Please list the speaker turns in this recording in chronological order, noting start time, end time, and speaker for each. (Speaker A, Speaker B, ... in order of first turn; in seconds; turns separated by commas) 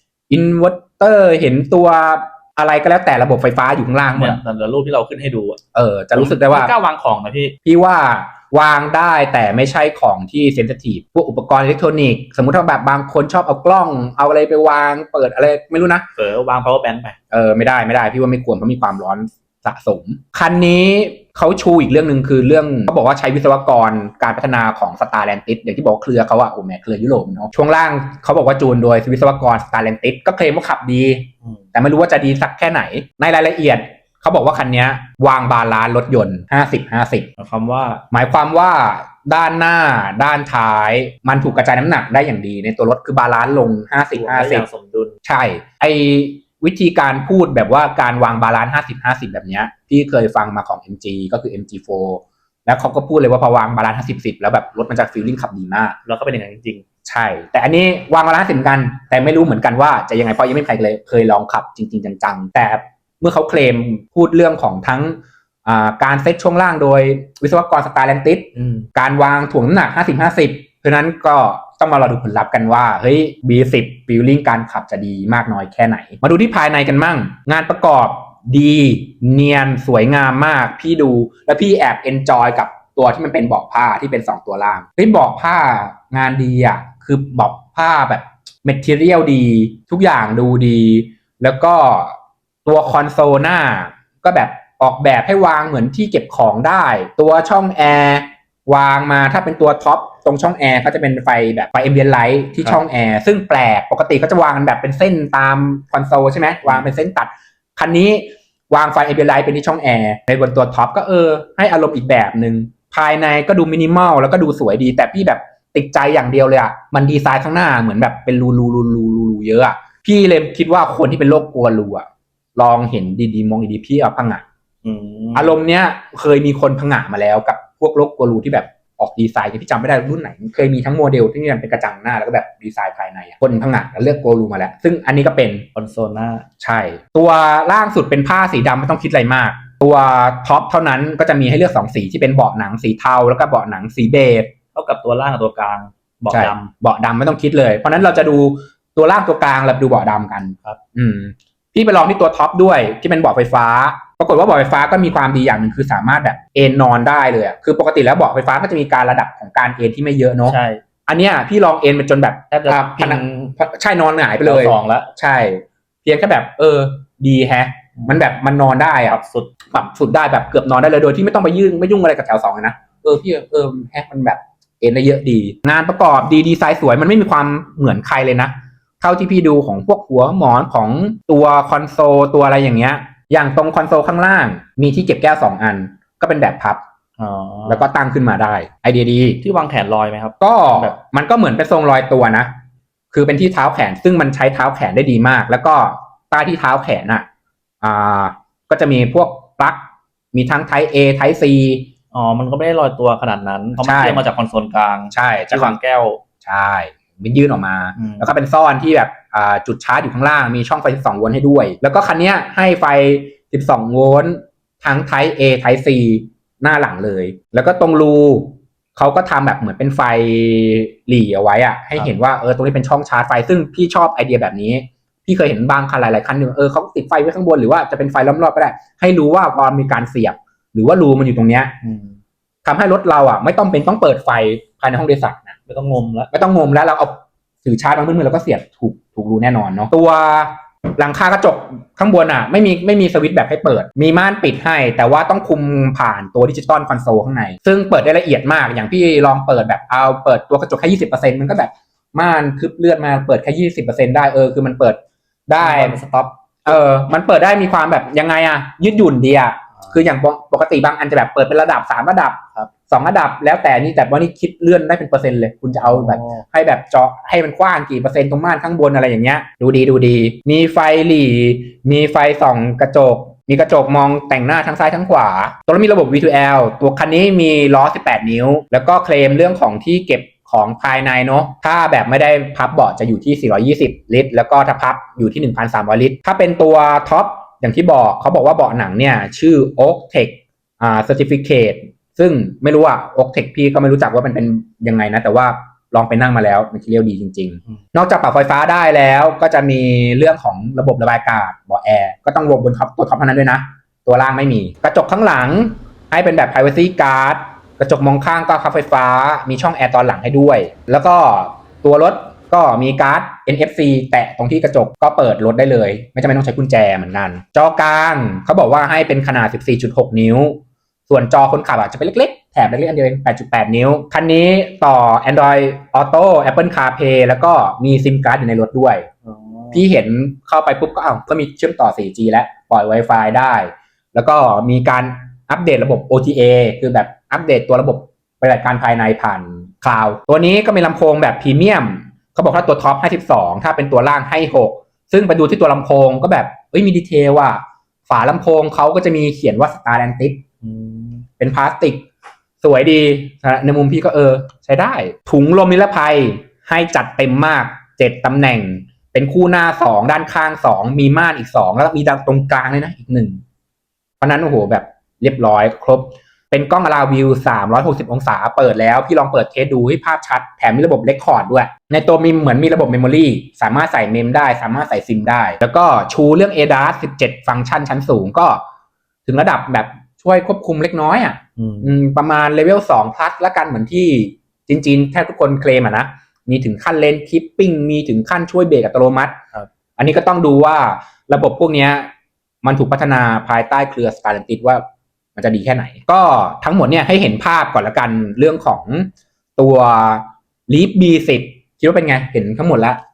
Speaker A: 0.3-4.4, Speaker B: 4.1-5.6, Speaker A: 5.7-6.7, Speaker B: 6.1-7.5, Speaker A: 7.6-16.1, Speaker B: 16.1-17.1, Speaker A: 17.3-37.3, Speaker B: 37.4-38.0, Speaker A: 38.1-44.6, Speaker B: 44.1-45.1, Speaker A: 45.2-56.0, Speaker B: 56.0-56.8, Speaker A: 57.0-124.4, Speaker B: 68.5-68.8, Speaker B: 124.8-125.6, Speaker A: 125.3-135.7, Speaker B: 135.7-136.4, Speaker A: 136.6-144.5, Speaker B: 144.7-146.7, Speaker A: 146.3-169.2, Speaker B: 160.4-160.8, Speaker B: 162.5-163.6, Speaker B: 164.4-165.1, Speaker B: 169.1-169.5, Speaker A: 169.7-186.8, Speaker B: 187.2-187.9, Speaker A: 187.7-189.4, Speaker B: 189.4-190.9, Speaker A: 190.4-192.5, Speaker A: 193.1-197.2, Speaker A: 197.8-201.9, Speaker B: 202.1-206.2, Speaker A: 203.8-204.2, Speaker A: 205.1-205.8, Speaker A: 206.4-231.8, Speaker B: 207.9-208.2, Speaker B: 231.8-232.2, Speaker A: 232.6-235.6, Speaker B: 235.7-236.3, Speaker A: 236.3-256.0, Speaker B: 255.6-256.8, Speaker A: 256.6-329.1, Speaker B: 265.9-266.4, Speaker B: 329.2-329.8, Speaker A: 329.7-350.4, Speaker B: 350.6-351.2, Speaker A: 351.4-352.0, Speaker A: 352.6-363.4, Speaker A: 364.2-378.6, Speaker A: 379.2-389.4, Speaker B: 381.6-381.9, Speaker A: 390.0-392.1, Speaker A: 392.6-394.8, Speaker A: 395.4-403.0